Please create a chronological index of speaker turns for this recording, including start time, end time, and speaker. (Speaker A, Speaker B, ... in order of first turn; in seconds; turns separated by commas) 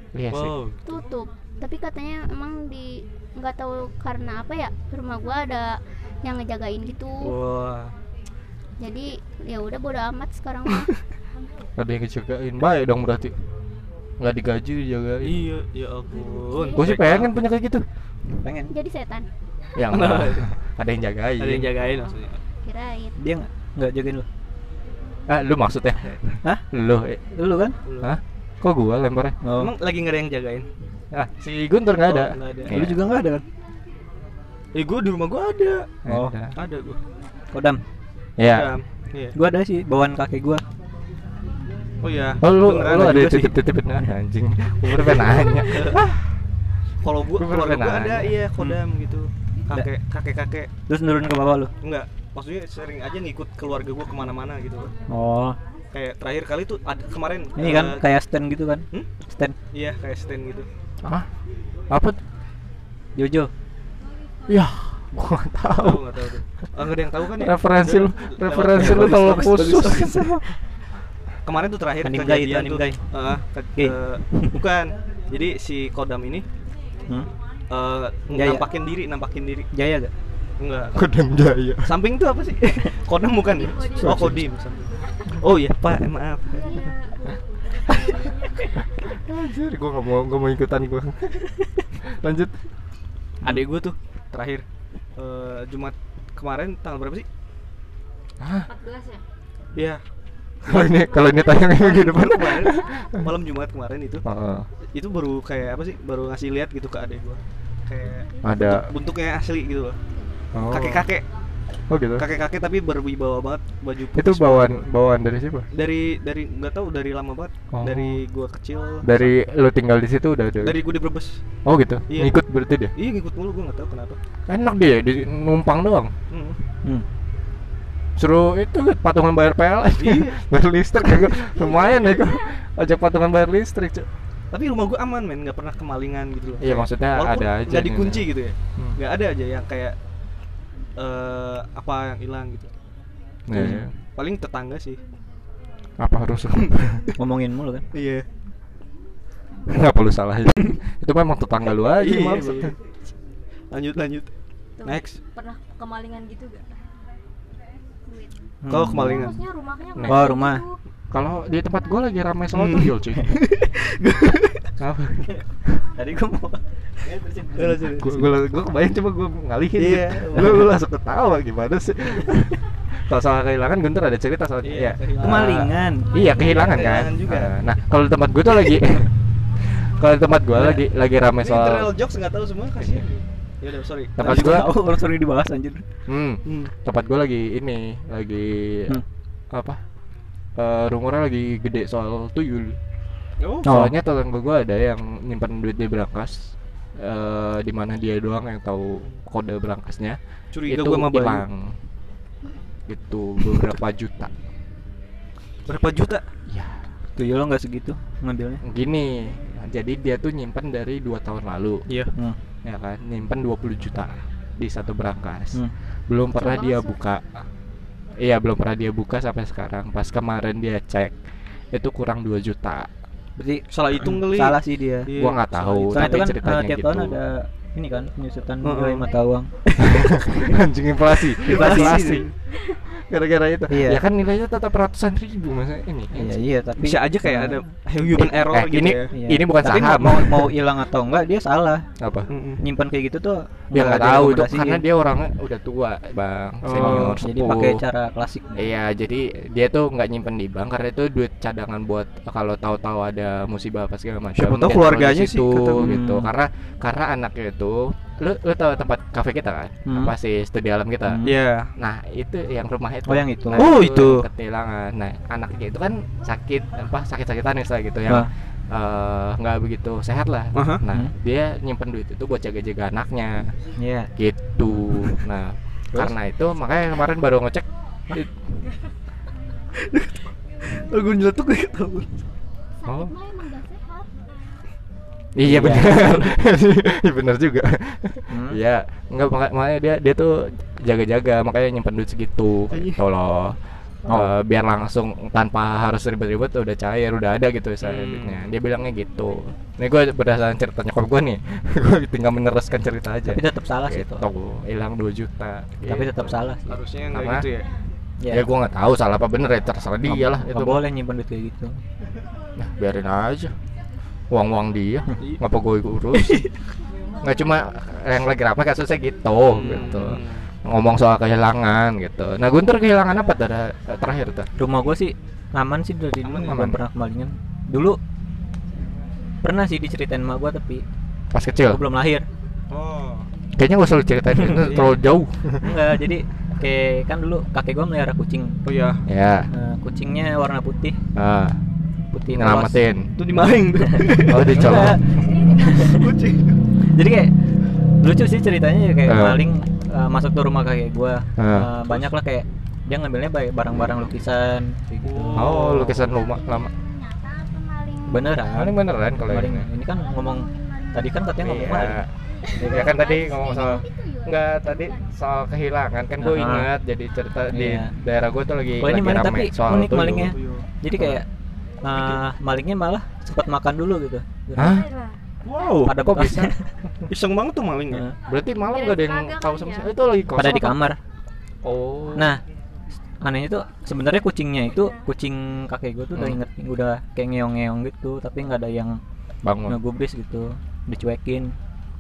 Speaker A: 0.1-0.6, Speaker B: 0.3-0.8, Speaker C: 0.8-7.3, Speaker B: 7.2-7.9, Speaker C: 8.8-11.0, Speaker A: 11.8-13.4, Speaker A: 14.2-15.4, Speaker B: 15.2-17.3, Speaker C: 16.4-16.9, Speaker A: 16.8-17.9, Speaker D: 18.4-18.7, Speaker C: 18.7-19.3, Speaker A: 19.8-21.7, Speaker B: 19.9-20.5, Speaker B: 21.4-22.4, Speaker C: 22.6-23.1, Speaker D: 23.2-24.3, Speaker A: 25.3-27.2, Speaker D: 27.3-27.8, Speaker B: 27.9-28.1, Speaker A: 28.0-29.4, Speaker D: 29.4-29.7, Speaker B: 29.5-30.7, Speaker A: 31.1-33.0, Speaker B: 32.1-32.8, Speaker D: 32.7-33.4, Speaker B: 34.7-36.0, Speaker A: 36.0-36.6, Speaker D: 36.1-36.4, Speaker B: 36.5-37.0, Speaker D: 37.5-37.8, Speaker A: 38.4-38.7, Speaker B: 38.4-39.4, Speaker D: 39.4-40.6, Speaker B: 42.0-43.2, Speaker A: 42.4-46.2, Speaker D: 42.8-43.6, Speaker B: 45.7-46.1, Speaker B: 47.0-50.7, Speaker A: 47.3-48.4, Speaker D: 50.9-51.7, Speaker B: 51.8-54.9, Speaker D: 55.1-55.6, Speaker B: 55.9-58.0, Speaker D: 57.6-59.5, Speaker B: 59.7-60.7, Speaker A: 61.0-61.3, Speaker A: 61.9-62.2, Speaker D: 63.2-63.5, Speaker A: 64.5-66.2, Speaker B: 65.8-70.4, Speaker A: 67.3-70.5, Speaker D: 68.8-69.3, Speaker B: 71.5-76.5, Speaker D: 72.0-73.0, Speaker D: 73.8-74.6, Speaker B: 77.7-79.7, Speaker D: 78.3-78.7, Speaker D: 79.7-80.1, Speaker B: 80.6-81.0, Speaker A: 81.0-82.0, Speaker B: 81.8-86.9, Speaker E: 83.5-84.2, Speaker D: 84.0-84.4, Speaker E: 86.5-88.8, Speaker A: 89.0-92.6, Speaker B: 93.4-94.7, Speaker B: 95.2-97.3, Speaker A: 98.4-98.7, Speaker E: 98.7-99.2, Speaker B: 99.8-100.0, Speaker B: 100.6-104.2, Speaker A: 100.7-103.2, Speaker A: 104.2-104.7, Speaker B: 104.9-110.0, Speaker A: 108.4-108.9, Speaker A: 110.5-111.1, Speaker B: 110.7-111.3, Speaker A: 111.9-112.3, Speaker B: 112.2-114.8, Speaker A: 114.2-115.7, Speaker B: 115.7-119.3, Speaker A: 117.7-118.2, Speaker A: 119.0-120.8, Speaker B: 120.6-121.4, Speaker A: 121.7-122.9, Speaker B: 122.1-122.4, Speaker B: 123.0-124.2, Speaker A: 124.5-126.1, Speaker B: 126.3-126.6, Speaker A: 128.2-134.1, Speaker B: 130.0-130.4, Speaker B: 134.5-140.0, Speaker A: 136.6-139.0, Speaker B: 141.0-142.7, Speaker A: 143.5-143.9, Speaker D: 143.5-143.9, Speaker B: 144.1-145.0, Speaker A: 146.0-147.1, Speaker D: 147.2-147.9, Speaker B: 147.9-148.3, Speaker A: 149.7-152.8, Speaker B: 151.8-152.8, Speaker B: 153.7-154.3, Speaker E: 154.8-156.7, Speaker B: 154.8-155.2, Speaker D: 158.6-159.4, Speaker B: 158.7-159.4, Speaker E: 159.0-160.8, Speaker A: 159.9-160.2, Speaker D: 160.1-160.7, Speaker A: 161.1-163.4, Speaker B: 162.5-164.7, Speaker A: 164.8-165.8, Speaker D: 165.9-168.3, Speaker B: 167.6-168.2, Speaker A: 168.0-181.9, Speaker B: 169.8-170.7, Speaker B: 174.6-177.5, Speaker D: 175.2-176.1, Speaker E: 176.1-176.7, Speaker B: 181.4-184.8, Speaker A: 184.2-184.7, Speaker D: 184.2-185.8, Speaker A: 186.1-189.8, Speaker B: 186.4-186.7, Speaker A: 190.6-192.8, Speaker B: 193.4-193.7, Speaker D: 193.6-193.9, Speaker A: 193.6-201.8, Speaker B: 200.5-201.4, Speaker A: 202.9-204.3, Speaker B: 205.7-206.3, Speaker A: 206.5-206.8, Speaker D: 207.2-208.6, Speaker A: 208.6-211.9, Speaker B: 211.9-212.1, Speaker A: 212.6-217.4, Speaker E: 216.4-216.9, Speaker A: 218.2-221.2, Speaker A: 221.7-222.9, Speaker D: 223.4-225.1, Speaker B: 223.7-226.3, Speaker A: 225.2-227.2, Speaker D: 225.9-230.1, Speaker B: 228.6-229.1, Speaker A: 229.8-232.3, Speaker B: 231.4-232.3, Speaker D: 231.4-232.1, Speaker A: 232.8-236.3, Speaker D: 233.7-234.0, Speaker D: 236.1-237.6, Speaker B: 236.8-239.1, Speaker A: 238.2-240.6, Speaker D: 239.1-241.9, Speaker A: 242.0-242.3, Speaker B: 242.3-242.7, Speaker D: 242.6-244.8, Speaker A: 243.7-247.8, Speaker B: 246.6-247.2, Speaker D: 246.7-248.7, Speaker A: 248.6-273.6, Speaker B: 254.3-255.6, Speaker D: 255.6-256.3, Speaker D: 259.9-260.1, Speaker D: 261.1-261.4, Speaker B: 261.2-261.7, Speaker D: 263.1-263.8, Speaker B: 263.5-264.3, Speaker B: 270.5-270.8, Speaker D: 273.8-274.1, Speaker A: 274.2-278.3, Speaker B: 279.8-282.1, Speaker C: 282.8-284.1, Speaker A: 282.9-283.1, Speaker A: 285.4-306.4, Speaker D: 285.4-286.2, Speaker D: 288.3-288.6, Speaker B: 292.7-293.0, Speaker D: 294.1-294.3, Speaker B: 297.8-298.5, Speaker D: 303.3-304.2, Speaker D: 305.9-306.6, Speaker B: 306.7-307.7, Speaker A: 307.1-307.5, Speaker D: 308.2-308.5, Speaker A: 308.3-310.8, Speaker D: 310.1-311.8, Speaker A: 312.6-313.6, Speaker A: 314.3-316.5, Speaker A: 317.2-324.5, Speaker B: 319.5-320.5, Speaker D: 324.6-328.0, Speaker B: 326.2-326.6, Speaker A: 326.5-326.8, Speaker D: 329.4-330.9, Speaker A: 331.3-331.8, Speaker D: 331.7-332.2, Speaker B: 332.7-333.3, Speaker A: 333.6-335.7, Speaker B: 334.5-334.9, Speaker D: 335.6-338.6, Speaker B: 338.6-339.0, Speaker A: 339.1-339.5, Speaker D: 339.5-341.0, Speaker A: 341.1-341.6, Speaker D: 342.1-342.8, Speaker A: 342.3-343.1, Speaker B: 343.2-346.6, Speaker D: 343.9-346.1, Speaker A: 344.2-345.2, Speaker E: 345.2-345.9, Speaker D: 346.9-347.3, Speaker D: 348.0-355.9, Speaker A: 349.1-349.5, Speaker A: 351.4-351.7, Speaker B: 351.9-352.1, Speaker B: 355.0-356.1, Speaker A: 355.3-356.7, Speaker C: 356.2-358.4, Speaker D: 358.1-362.0, Speaker A: 358.5-359.7, Speaker C: 360.0-361.2, Speaker A: 361.4-370.4, Speaker C: 362.4-364.9, Speaker D: 362.6-363.0, Speaker D: 366.2-366.7, Speaker D: 367.5-367.9, Speaker D: 368.8-371.3, Speaker B: 370.2-370.7, Speaker D: 371.8-374.8, Speaker B: 371.9-372.2, Speaker A: 374.6-374.9, Speaker E: 374.6-375.2, Speaker B: 375.4-375.9, Speaker D: 375.8-376.7, Speaker A: 375.9-376.5, Speaker B: 377.1-378.1, Speaker D: 377.9-378.2, Speaker A: 378.2-380.9, Speaker E: 378.6-379.9, Speaker D: 380.4-381.0, Speaker A: 381.6-382.3, Speaker D: 382.1-382.4, Speaker D: 383.2-389.0, Speaker E: 384.8-385.0, Speaker A: 386.1-386.4, Speaker A: 389.4-389.8, Speaker D: 389.7-391.6